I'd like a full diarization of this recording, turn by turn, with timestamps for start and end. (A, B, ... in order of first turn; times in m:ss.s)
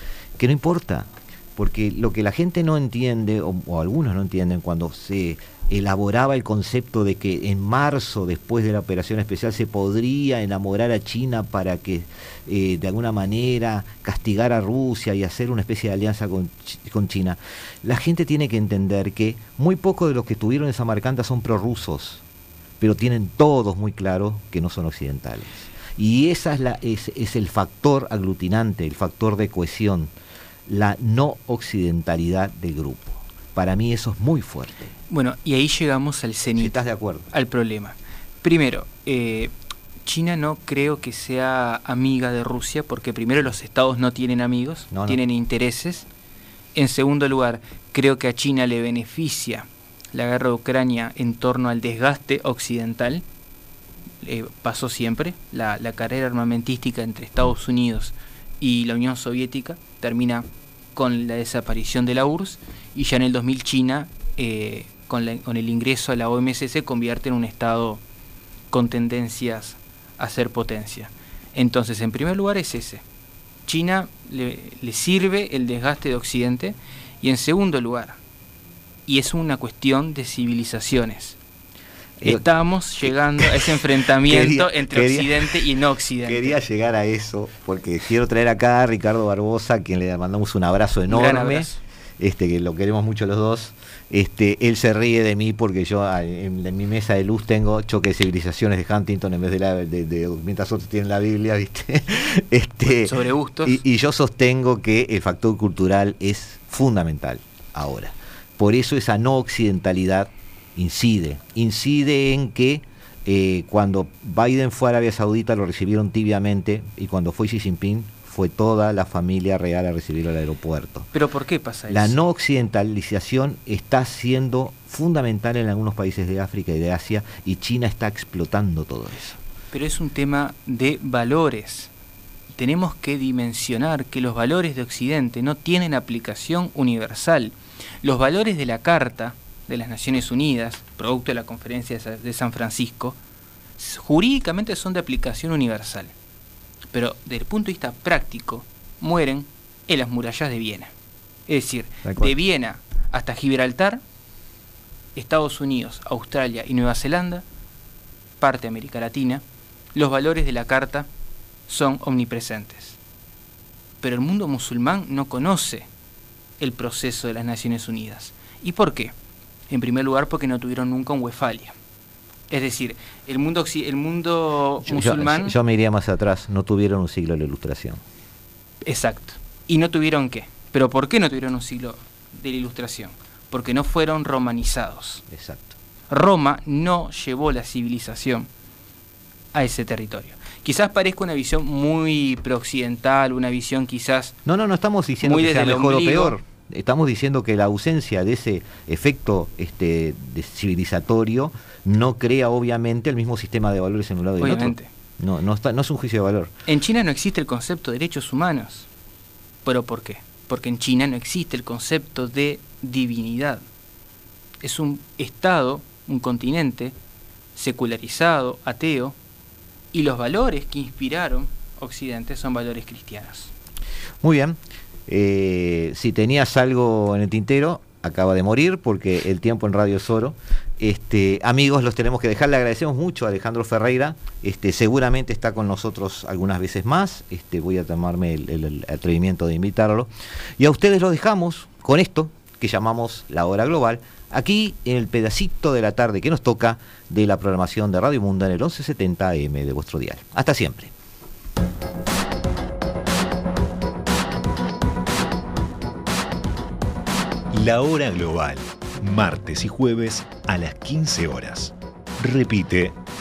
0:00.4-0:22.2 A
0:22.8-0:30.1 A
0:30.7-0:34.9 A
0:35.1-0:36.8 B
0:36.6-0:37.3 A
0:37.3-0:39.5 B
0:40.0-0:46.1 B
0:44.9-0:45.2 A
0:46.8-0:53.2 B
0:54.2-1:08.0 B
1:08.7-1:13.0 B
1:13.7-1:18.2 B
1:19.1-1:21.4 B
1:22.2-1:26.6 B
1:23.0-1:25.6 A
1:26.3-2:01.1 A
1:31.1-1:31.8 B
1:42.8-1:43.8 B
2:01.1-2:02.2 B
2:01.9-2:09.4 A
2:09.7-2:11.9 B
2:12.5-2:23.2 B
2:23.8-2:26.1 B
2:26.9-2:30.9 B
2:31.5-2:34.0 B
2:32.0-2:32.4 A
2:35.2-2:37.4 B
2:38.4-2:39.4 B
2:40.0-2:41.1 B
2:41.7-2:43.0 B
2:44.0-2:45.9 B
2:46.6-2:49.1 B
2:49.7-2:51.7 B
2:52.5-2:55.6 B
2:54.8-2:58.0 A
2:58.8-3:05.2 B
3:05.3-3:05.8 A
3:06.1-3:08.5 B
3:09.5-3:14.4 B
3:14.4-3:26.5 A
3:15.2-3:16.4 B
3:24.4-3:24.9 B
3:26.7-3:28.9 B
3:29.6-3:33.7 B
3:34.6-3:36.9 B
3:37.6-3:39.2 B
3:39.9-3:43.5 B
3:44.2-4:10.9 A
4:17.5-4:23.0 C